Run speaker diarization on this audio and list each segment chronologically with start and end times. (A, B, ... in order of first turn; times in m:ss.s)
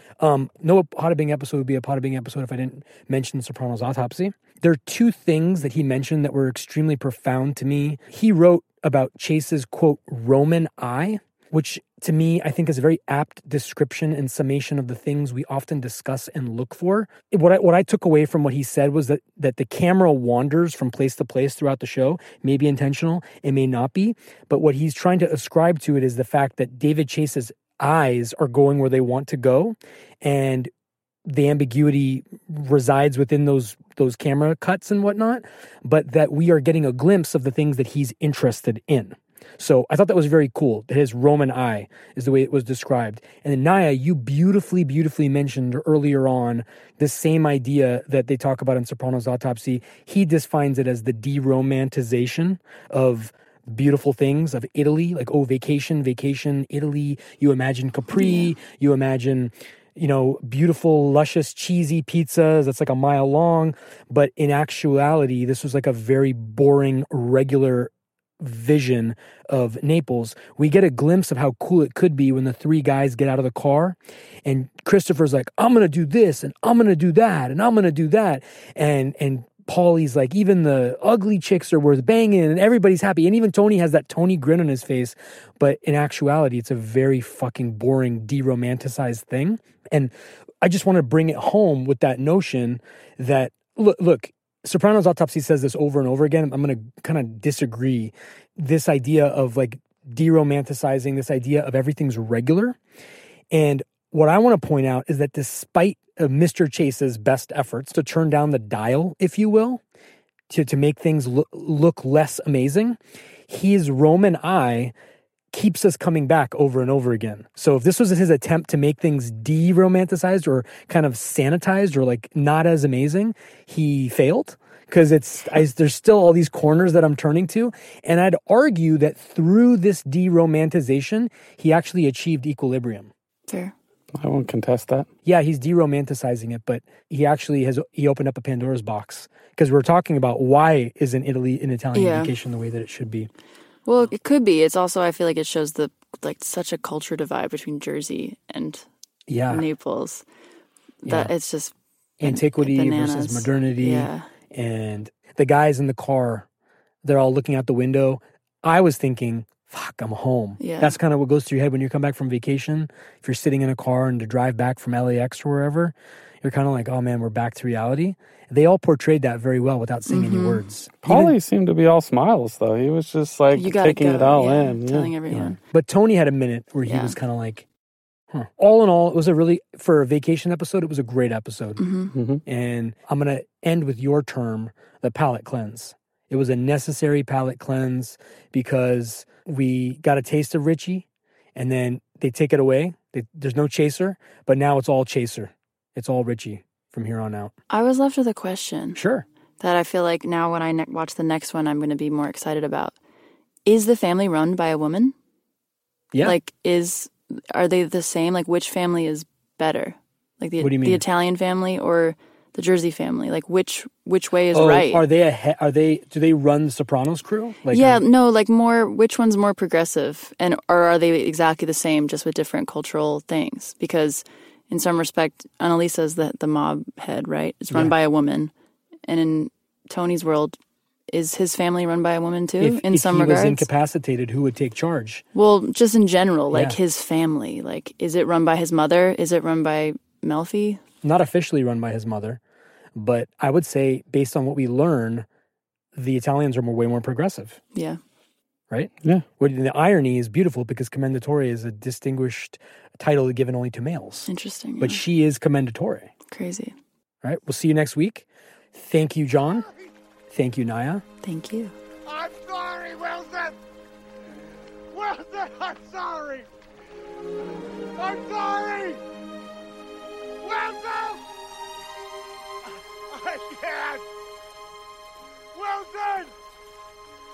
0:00.2-0:30.7 A
0:31.3-1:42.8 A
0:58.1-0:58.5 B
1:43.5-1:49.8 A
1:50.5-1:54.9 A
1:55.5-2:13.1 A
2:13.5-2:13.7 B
2:14.2-2:15.1 C
2:15.2-2:23.3 A
2:21.9-2:22.3 B
2:23.9-2:28.8 B
2:29.3-2:29.6 A
2:29.5-2:30.2 B
2:31.0-2:31.3 A
2:31.0-2:31.7 B
2:32.2-2:36.5 A
2:32.2-2:34.3 B
2:37.0-2:51.3 A
2:40.6-2:41.0 B
2:50.1-2:50.6 B
2:51.0-2:55.1 C
2:53.5-2:55.6 B
2:55.3-2:57.7 A
2:56.9-2:57.2 B
2:58.3-3:01.8 A
3:01.8-3:02.1 B
3:02.1-3:02.4 C
3:02.5-3:17.5 A
3:17.7-3:19.0 B
3:19.0-3:19.3 A
3:19.6-3:23.0 B
3:23.7-3:25.2 B
3:26.2-3:35.0 B
3:30.6-3:31.0 A
3:34.5-3:38.0 A
3:37.7-3:48.5 B
3:49.1-3:50.6 B
3:51.1-3:53.7 B
3:52.6-3:55.2 A
3:55.4-4:00.8 B
3:56.5-3:56.8 A
4:01.0-4:02.4 A
4:03.0-4:05.3 A
4:06.0-4:07.6 A
4:07.7-4:08.0 B
4:08.7-4:14.3 A
4:14.3-4:15.0 B
4:14.8-4:16.1 A
4:16.3-4:16.8 B
4:17.2-4:19.7 A
4:19.5-4:19.8 D
4:20.3-4:21.0 A
4:21.2-4:21.7 B
4:22.1-4:23.6 D
4:24.9-4:26.5 D
4:28.0-4:29.0 D
4:30.4-4:31.2 D
4:33.1-4:34.0 D
4:35.5-4:36.3 D